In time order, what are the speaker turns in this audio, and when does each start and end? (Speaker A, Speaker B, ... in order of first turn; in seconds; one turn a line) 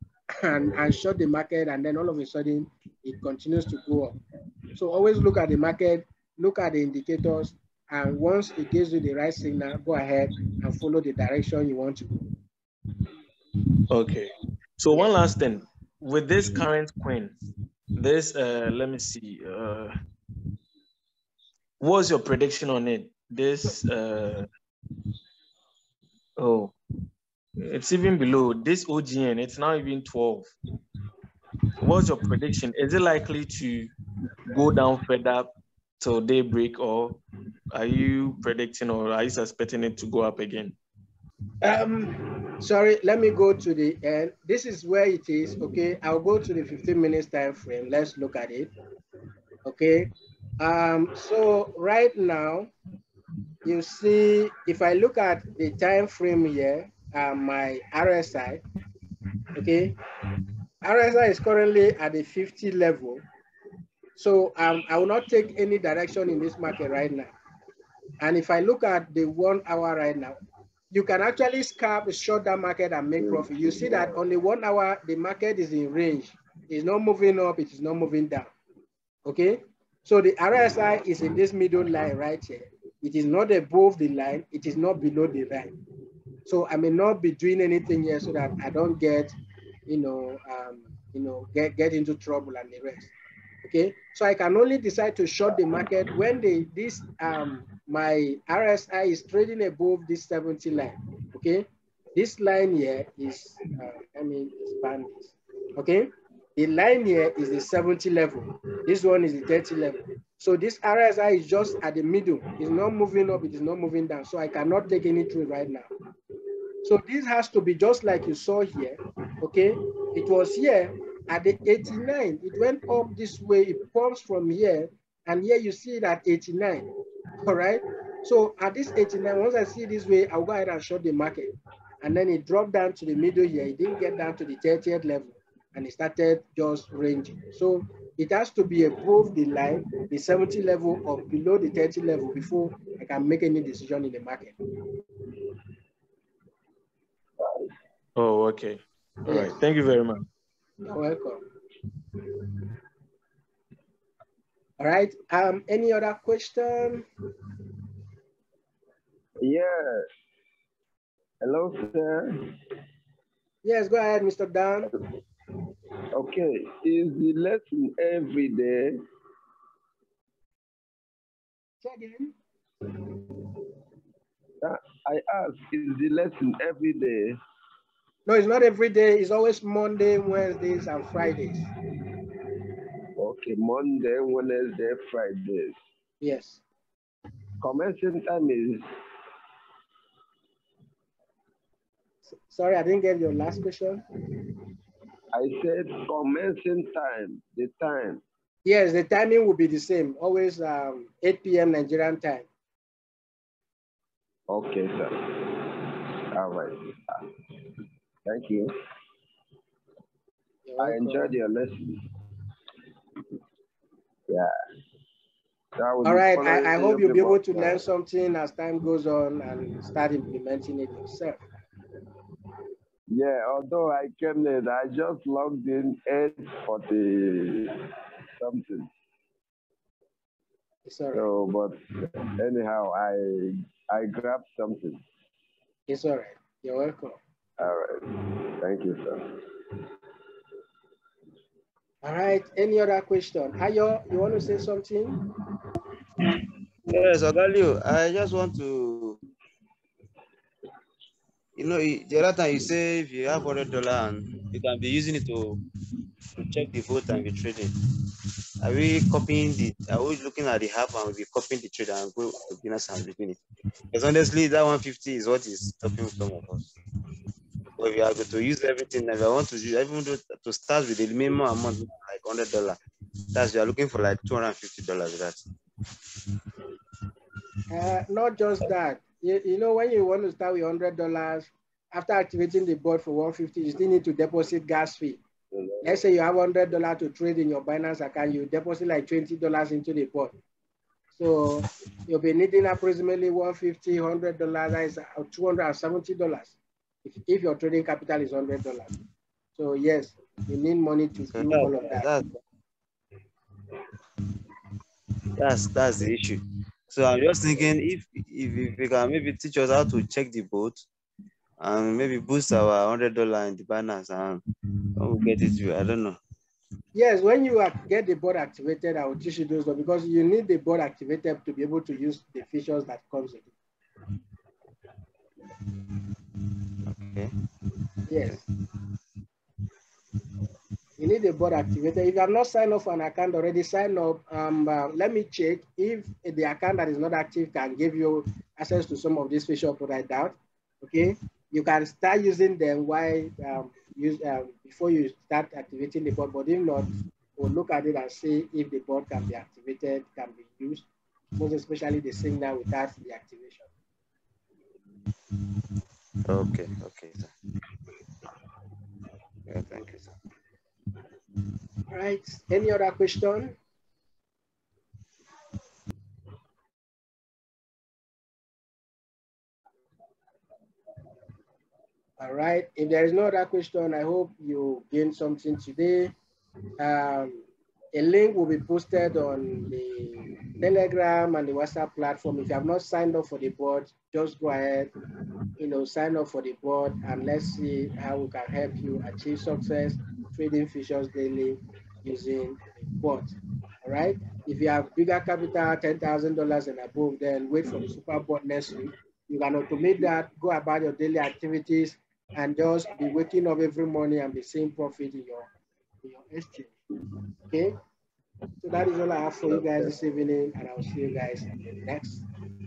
Speaker A: 0.4-4.2
Speaker A: 4.7-12.1
Speaker B: 13.9-17.3
Speaker B: 17.9-19.9
Speaker B: 21.8-24.5
Speaker B: 26.4-26.7
Speaker B: 27.6-30.5
Speaker B: 31.8-33.9
Speaker B: 34.5-37.2
Speaker B: 37.7-40.7
Speaker A: 41.6-48.7
Speaker A: 49.6-52.7
Speaker A: 53.6-58.6
Speaker A: 59.5-60.0
Speaker A: 60.8-63.2
Speaker A: 64.2-67.3
Speaker A: 68.2-70.4
Speaker A: 70.9-78.5
Speaker C: 73.2-74.1
Speaker A: 79.2-85.7
Speaker A: 86.5-89.3
Speaker A: 89.9-93.1
Speaker A: 93.6-115.9
Speaker A: 116.8-126.8
Speaker A: 127.4-131.5
Speaker A: 132.0-144.5
Speaker B: 148.2-150.2
Speaker A: 149.3-149.6
Speaker A: 150.9-151.4
Speaker A: 154.8-157.1
Speaker C: 159.4-160.1
Speaker C: 161.4-162.4
Speaker A: 163.6-164.9
Speaker C: 166.1-169.0
Speaker A: 171.8-172.3
Speaker C: 174.6-177.4
Speaker A: 178.2-181.7
Speaker C: 183.2-185.7
Speaker A: 186.2-186.6
Speaker C: 187.6-188.8
Speaker A: 192.4-194.0
Speaker C: 195.3-198.2
Speaker A: 198.6-202.4
Speaker C: 204.5-207.3
Speaker C: 208.2-208.7
Speaker A: 210.7-211.3
Speaker C: 210.8-212.1
Speaker C: 215.8-217.8
Speaker A: 216.0-221.4
Speaker C: 223.1-227.8
Speaker C: 228.4-228.9
Speaker A: 230.8-231.2
Speaker C: 231.1-235.0
Speaker A: 235.9-237.2
Speaker C: 237.6-239.4
Speaker A: 242.0-245.2
Speaker D: 246.9-249.2
Speaker D: 251.6-255.6
Speaker D: 256.4-257.7
Speaker D: 258.6-263.4
Speaker D: 263.9-266.7
Speaker D: 267.8-272.8
Speaker D: 273.3-275.4
Speaker A: 277.7-285.2
Speaker A: 285.8-290.3
Speaker A: 291.1-296.5
Speaker A: 297.1-298.9
Speaker A: 299.6-302.1
Speaker D: 301.3-302.3
Speaker D: 305.4-310.8
Speaker D: 311.6-314.4
Speaker D: 315.0-316.2
Speaker A: 316.9-323.5
Speaker D: 326.9-327.3
Speaker A: 328.1-328.4
Speaker A: 331.0-350.8
Speaker A: 351.4-353.7
Speaker D: 356.2-357.3
Speaker D: 359.5-360.1
Speaker A: 361.9-363.5
Speaker A: 372.2-376.1
Speaker A: 376.8-384.9
Speaker A: 385.6-393.3
Speaker A: 393.8-405.5
Speaker A: 406.0-406.7
Speaker A: 408.6-412.2
Speaker C: 409.5-409.9